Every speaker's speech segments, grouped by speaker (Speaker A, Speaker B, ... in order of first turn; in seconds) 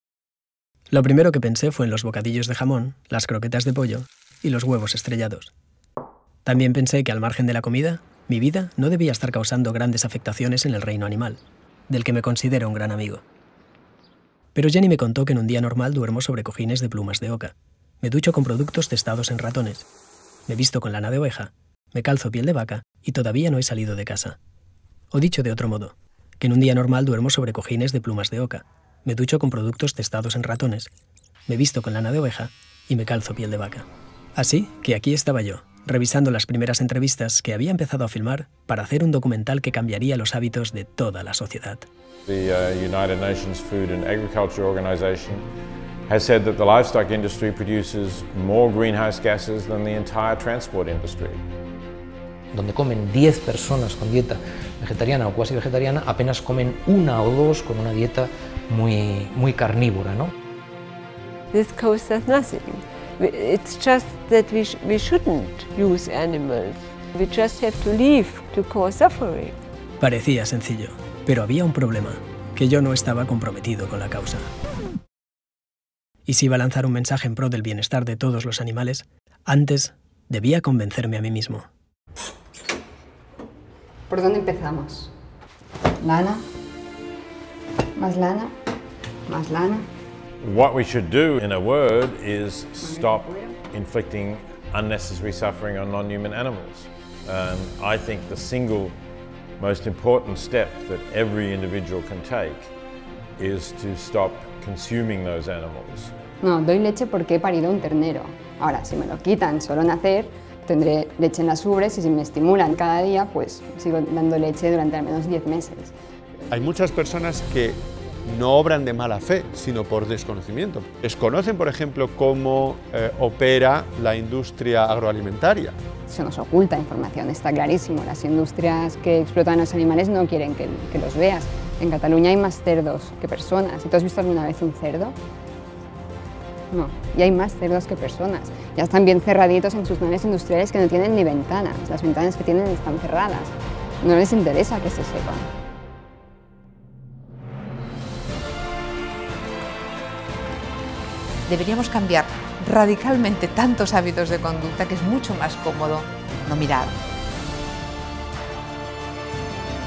Speaker A: 0.9-5.5, 6.5-13.2, 14.5-19.9, 20.5-24.4, 25.1-30.9, 31.5-33.8, 34.4-41.9, 70.0-74.5, 76.3-81.6
Speaker B: 42.3-45.5, 46.1-51.4, 90.4-99.0, 99.6-102.7, 103.4-106.1
Speaker C: 52.5-60.3
Speaker D: 61.5-69.5
Speaker E: 84.1-85.1, 86.0-86.4, 88.0-88.5, 89.3-89.8, 93.0-93.5, 106.4-115.9, 126.1-135.2, 136.7-145.5
Speaker F: 116.5-125.8
Speaker G: 151.5-156.9